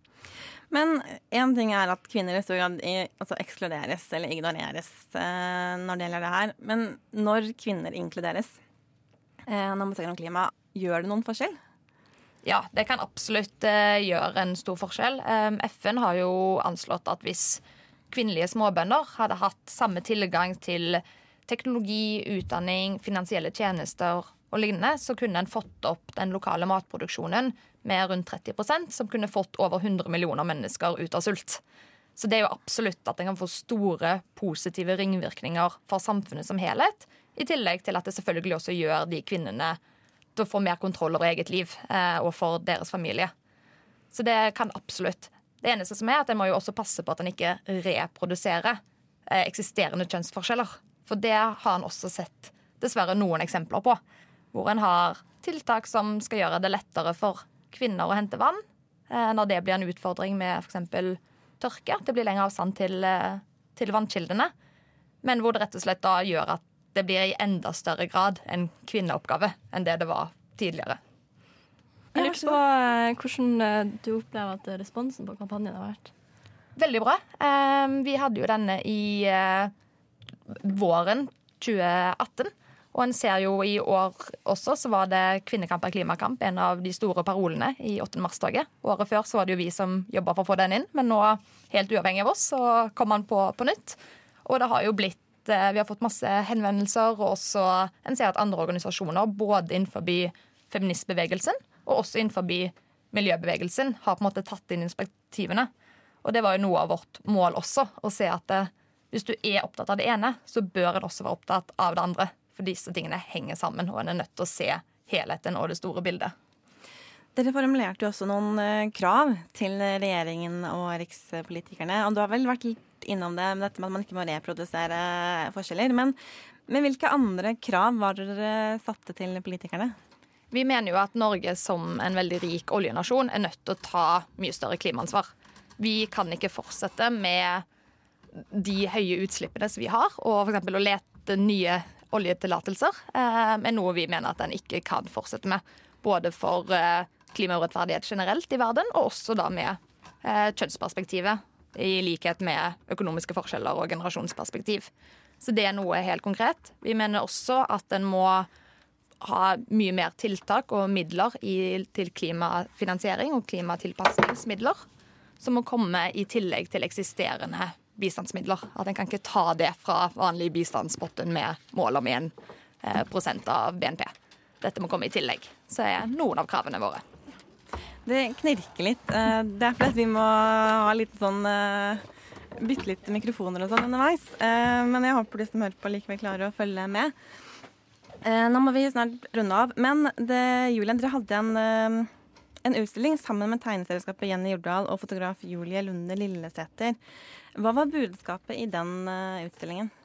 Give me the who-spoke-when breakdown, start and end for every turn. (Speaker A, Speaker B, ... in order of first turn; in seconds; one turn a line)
Speaker A: 0.7-8.6
Speaker A: 9.4-11.6
Speaker B: 12.4-31.6
Speaker B: 32.2-39.8
Speaker B: 40.3-43.3
Speaker B: 44.1-54.0
Speaker B: 54.5-64.5
Speaker B: 65.2-71.0
Speaker A: 72.2-72.5
Speaker C: 72.2-76.1
Speaker B: 76.7-79.7
Speaker B: 80.5-105.7
Speaker B: 106.2-116.3
Speaker A: 117.3-126.2
Speaker A: 126.7-129.9
Speaker B: 130.5-137.6
Speaker B: 138.3-154.9
Speaker B: 155.4-158.5
Speaker B: 159.2-164.8
Speaker B: 165.4-177.0
Speaker A: 178.1-182.0
Speaker A: 182.6-187.1
Speaker A: 188.2-192.1
Speaker A: 192.6-197.0
Speaker A: 197.6-199.9